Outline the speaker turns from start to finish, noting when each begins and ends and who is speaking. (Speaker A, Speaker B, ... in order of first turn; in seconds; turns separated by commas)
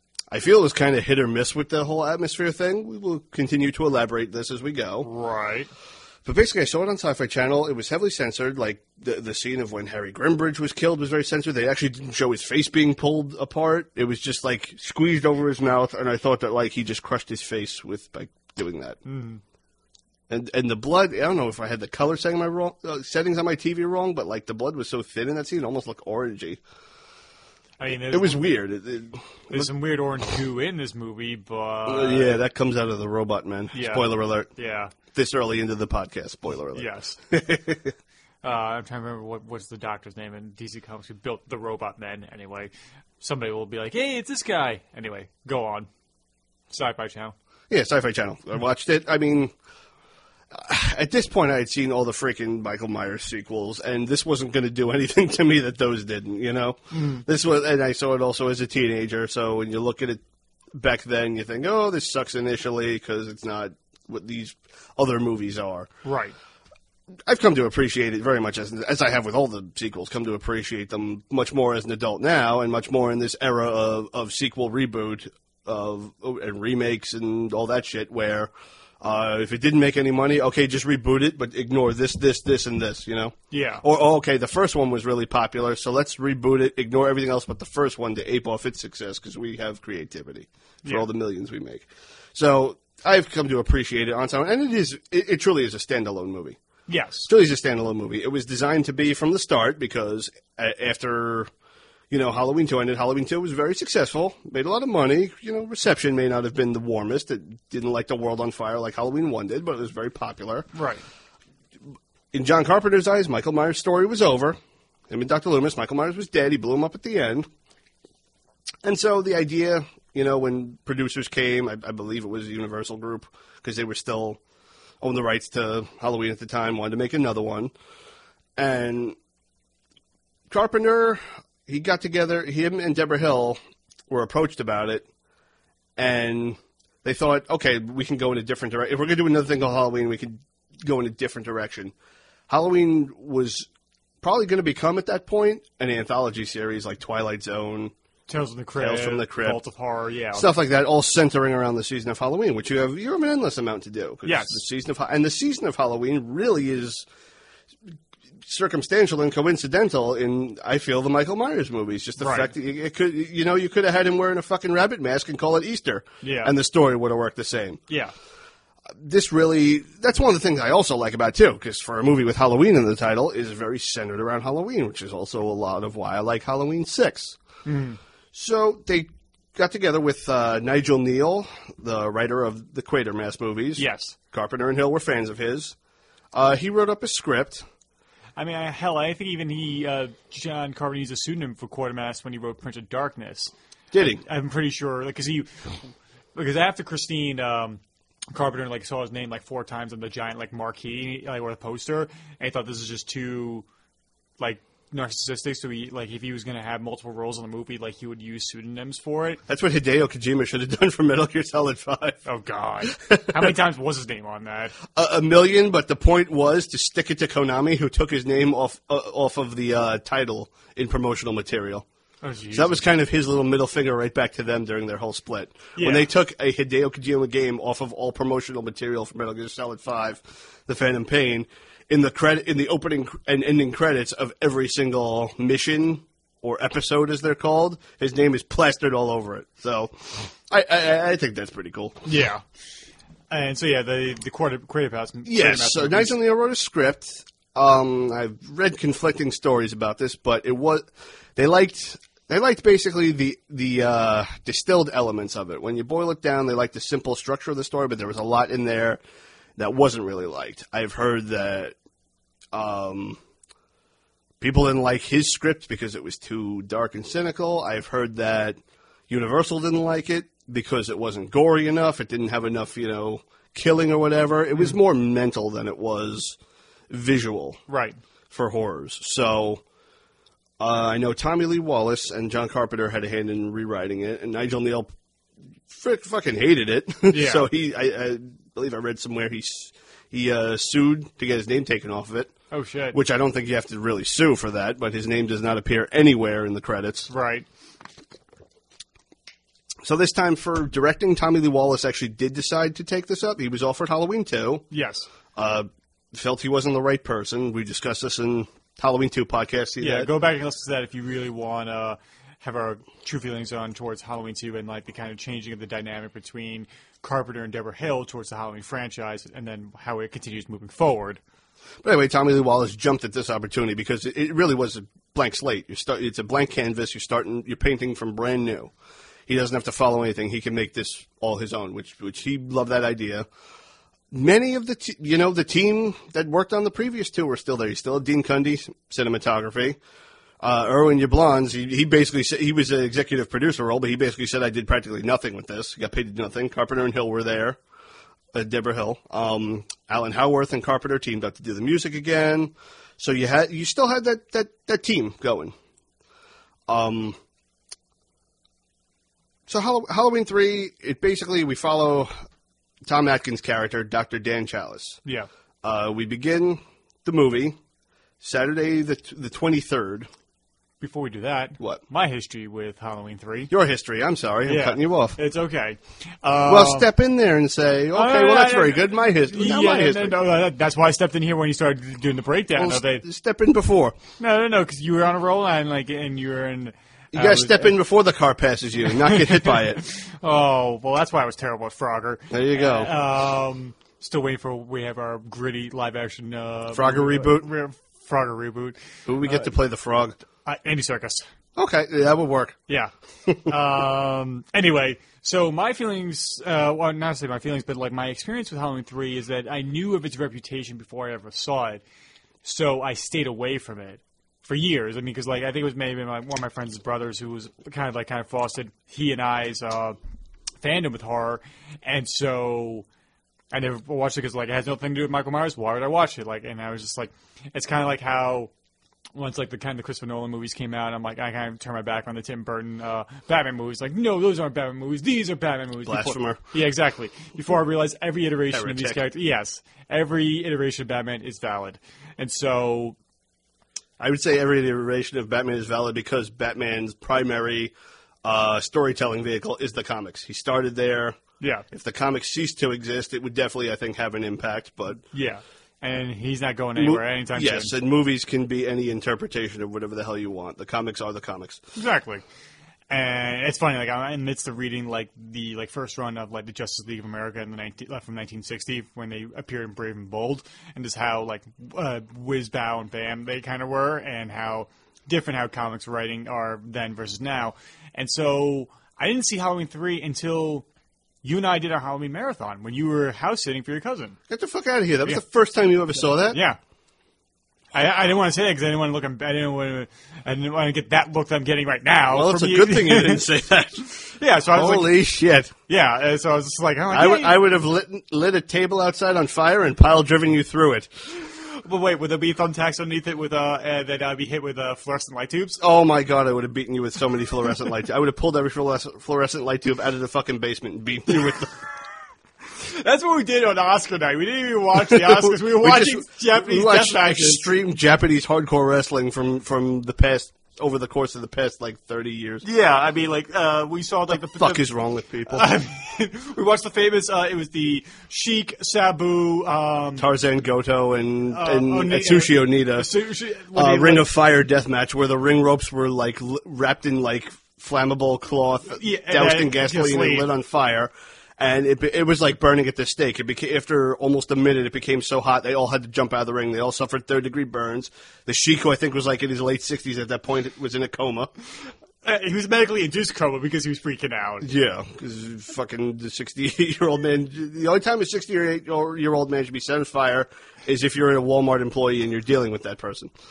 Speaker A: 0.3-5.1, Speaker B: 5.0-5.7, Speaker A: 6.2-19.0, Speaker B: 19.0-19.4, Speaker A: 20.3-26.6, Speaker B: 27.8-28.5, Speaker A: 28.0-29.7, Speaker B: 29.5-32.4, Speaker A: 31.9-34.5, Speaker B: 33.7-34.9, Speaker A: 35.1-37.9, Speaker B: 36.7-37.2, Speaker B: 38.4-45.9, Speaker B: 46.7-47.3, Speaker A: 47.7-49.5, Speaker A: 50.5-60.2, Speaker B: 56.9-57.2, Speaker A: 60.7-65.9, Speaker B: 66.0-66.3, Speaker A: 67.2-96.6, Speaker B: 83.5-83.8, Speaker B: 96.9-97.3, Speaker A: 97.3-101.5, Speaker A: 102.1-110.7, Speaker B: 110.7-111.0, Speaker A: 112.3-114.6, Speaker A: 115.1-117.5, Speaker A: 118.8-124.4, Speaker A: 125.0-127.7, Speaker A: 128.6-129.2, Speaker A: 130.5-135.1, Speaker A: 136.0-141.9, Speaker A: 142.5-143.7, Speaker A: 144.2-147.9, Speaker B: 148.3-150.5, Speaker A: 148.8-149.6, Speaker A: 150.3-157.1, Speaker B: 154.2-154.6, Speaker A: 158.4-167.8, Speaker B: 162.2-162.5, Speaker B: 166.2-166.5, Speaker A: 168.9-177.4, Speaker B: 177.6-178.0, Speaker A: 178.3-185.7, Speaker B: 183.8-184.1, Speaker A: 186.3-187.6, Speaker B: 188.4-193.5, Speaker A: 193.9-194.2, Speaker B: 194.0-203.7, Speaker B: 204.4-209.4, Speaker A: 209.5-212.2, Speaker B: 212.2-214.8, Speaker A: 212.9-213.4, Speaker A: 214.9-221.8, Speaker B: 222.2-222.8, Speaker A: 222.5-242.0, Speaker B: 225.8-226.1, Speaker B: 242.0-242.4, Speaker B: 243.3-246.2, Speaker A: 245.2-259.0, Speaker A: 259.6-261.7, Speaker A: 262.5-263.2, Speaker A: 264.4-268.6, Speaker A: 269.1-276.4, Speaker A: 276.9-277.6, Speaker B: 277.7-278.0, Speaker A: 278.3-279.6, Speaker A: 280.6-284.9, Speaker A: 285.7-292.3, Speaker B: 287.1-287.5, Speaker B: 292.5-293.0, Speaker A: 292.9-297.1, Speaker B: 297.1-297.4, Speaker A: 299.8-304.6, Speaker B: 304.7-305.1, Speaker A: 305.3-310.1, Speaker B: 309.8-321.2, Speaker A: 321.8-328.7, Speaker A: 329.3-333.2, Speaker A: 334.1-339.8, Speaker A: 340.4-347.6, Speaker A: 348.3-355.5, Speaker A: 356.7-357.2, Speaker A: 359.5-362.1, Speaker A: 362.8-365.0, Speaker A: 365.6-367.6, Speaker A: 368.2-370.1, Speaker B: 370.8-373.5, Speaker A: 373.5-375.2, Speaker B: 374.4-376.9, Speaker A: 376.5-380.2, Speaker B: 377.9-383.0, Speaker A: 382.6-384.0, Speaker B: 384.2-387.7, Speaker A: 387.1-389.8, Speaker B: 389.0-399.5, Speaker A: 392.3-392.9, Speaker A: 396.7-397.5, Speaker A: 399.1-400.2, Speaker B: 400.4-401.2, Speaker A: 401.6-402.6, Speaker B: 403.4-411.8, Speaker B: 412.4-420.0, Speaker B: 420.6-422.9, Speaker B: 423.5-428.5, Speaker B: 429.1-442.9, Speaker A: 435.9-436.4, Speaker A: 438.5-439.0, Speaker A: 444.0-451.2, Speaker B: 451.4-451.6, Speaker A: 451.7-455.0, Speaker B: 455.1-457.7, Speaker A: 456.8-461.6, Speaker B: 461.7-462.2, Speaker B: 462.9-480.6, Speaker B: 481.2-484.2, Speaker A: 484.3-486.4, Speaker B: 486.3-486.6, Speaker B: 487.7-493.2, Speaker A: 492.1-493.9, Speaker B: 493.9-494.9, Speaker A: 494.5-495.5, Speaker B: 495.7-497.4, Speaker A: 496.9-500.9, Speaker B: 501.2-505.6, Speaker A: 505.6-511.6, Speaker B: 512.6-517.5, Speaker A: 514.9-522.4, Speaker B: 522.4-524.6, Speaker A: 524.1-525.5, Speaker B: 525.3-530.1, Speaker A: 530.0-532.9, Speaker B: 531.3-534.1, Speaker A: 533.5-551.3, Speaker B: 538.8-540.3, Speaker B: 552.0-554.5, Speaker A: 554.4-563.1